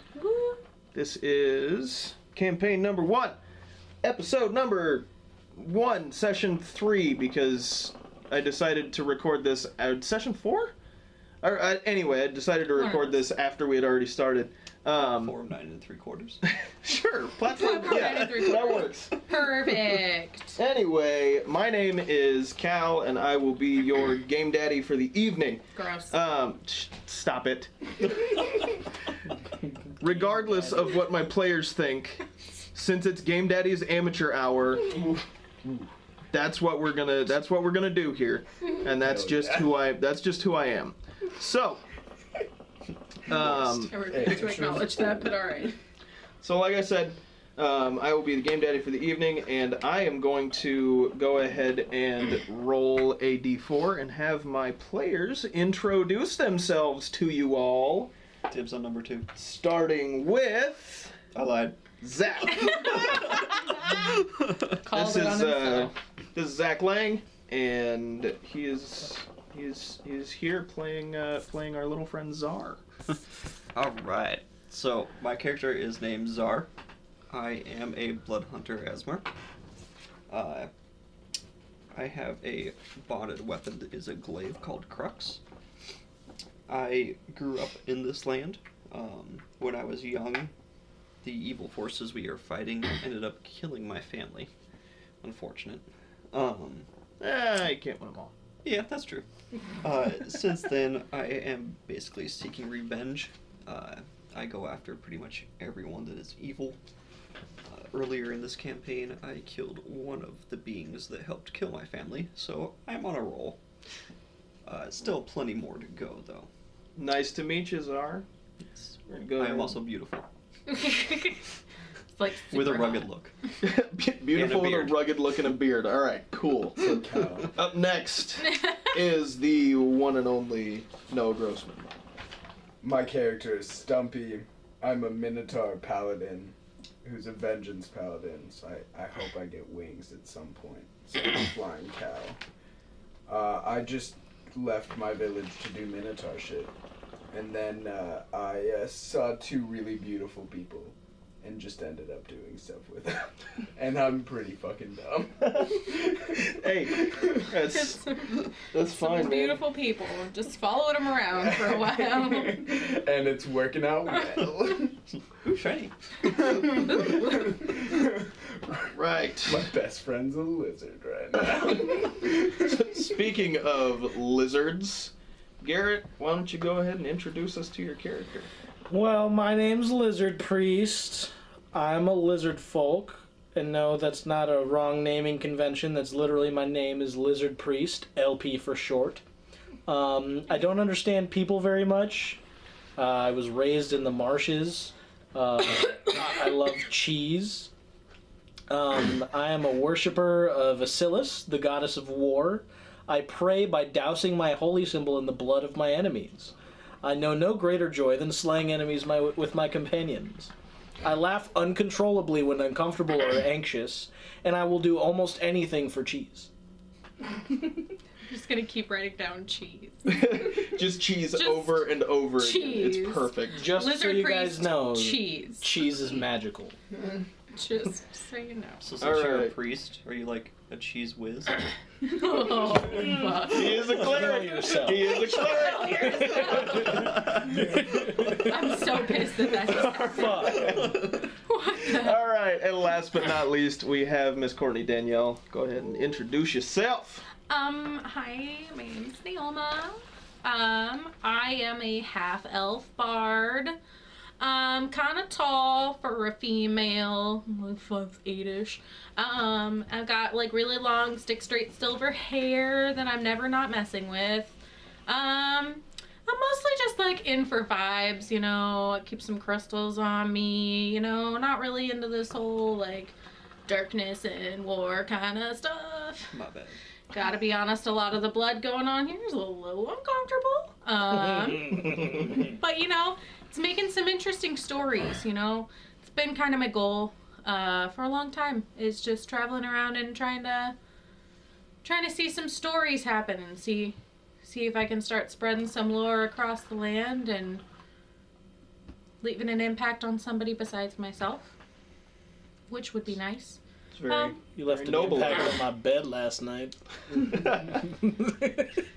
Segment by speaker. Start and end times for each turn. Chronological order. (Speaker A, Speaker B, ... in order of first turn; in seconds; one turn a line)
Speaker A: 0.1-0.6
Speaker B: 0.9-3.4
Speaker B: 4.0-10.7
Speaker B: 11.4-15.3
Speaker A: 12.7-13.2
Speaker C: 14.9-16.4
Speaker B: 16.5-19.2
Speaker A: 17.5-20.6
Speaker B: 20.6-28.1
Speaker A: 25.7-26.2
Speaker D: 29.6-31.0
Speaker B: 30.0-32.2
Speaker B: 32.7-35.0
Speaker E: 34.9-35.9
Speaker B: 36.3-41.8
Speaker E: 39.0-39.7
Speaker B: 43.2-44.0
Speaker E: 43.4-45.5
Speaker A: 43.9-45.8
Speaker B: 46.4-58.1
Speaker C: 58.5-59.3
Speaker B: 59.3-61.2
Speaker C: 61.3-61.8
Speaker B: 62.0-63.3
Speaker A: 62.6-64.2
Speaker C: 62.7-63.3
Speaker C: 64.0-64.6
Speaker A: 64.8-65.9
Speaker B: 64.9-72.8
Speaker C: 73.7-76.7
Speaker C: 77.3-79.3
Speaker C: 80.3-80.7
Speaker C: 81.9-85.4
Speaker C: 86.7-90.5
Speaker C: 91.2-94.5
Speaker C: 95.2-96.9
Speaker B: 97.2-98.3
Speaker C: 98.6-99.2
Speaker C: 99.8-106.8
Speaker C: 107.6-113.6
Speaker C: 114.6-116.5
Speaker B: 117.0-118.2
Speaker C: 118.7-120.3
Speaker B: 119.0-119.8
Speaker A: 120.7-121.5
Speaker A: 122.1-123.1
Speaker C: 122.5-123.3
Speaker B: 123.6-131.9
Speaker C: 124.3-125.0
Speaker E: 126.8-127.5
Speaker A: 128.5-128.8
Speaker E: 132.8-142.4
Speaker E: 143.3-146.7
Speaker E: 147.3-157.5
Speaker B: 156.3-159.7
Speaker A: 158.1-162.7
Speaker E: 161.3-164.9
Speaker C: 165.4-166.4
Speaker E: 166.2-172.8
Speaker A: 166.9-167.5
Speaker B: 168.9-169.7
Speaker B: 171.7-178.5
Speaker D: 178.9-189.2
Speaker D: 189.8-192.4
Speaker D: 193.0-197.7
Speaker D: 198.7-210.5
Speaker D: 211.0-216.5
Speaker A: 218.3-220.7
Speaker B: 220.1-223.7
Speaker A: 221.3-225.7
Speaker D: 223.5-226.8
Speaker A: 227.5-228.8
Speaker C: 228.8-231.7
Speaker B: 229.0-229.5
Speaker A: 232.0-234.0
Speaker B: 233.4-237.1
Speaker D: 233.8-235.3
Speaker A: 235.1-240.9
Speaker C: 235.6-238.2
Speaker D: 235.9-238.6
Speaker D: 239.6-240.8
Speaker C: 240.4-241.2
Speaker A: 241.4-242.2
Speaker B: 241.8-247.3
Speaker A: 247.5-253.8
Speaker A: 254.4-273.1
Speaker A: 273.7-276.3
Speaker C: 276.3-276.8
Speaker A: 277.1-290.8
Speaker D: 281.7-282.2
Speaker A: 291.8-297.6
Speaker A: 299.2-301.5
Speaker A: 302.7-304.4
Speaker B: 303.9-305.6
Speaker D: 304.5-308.8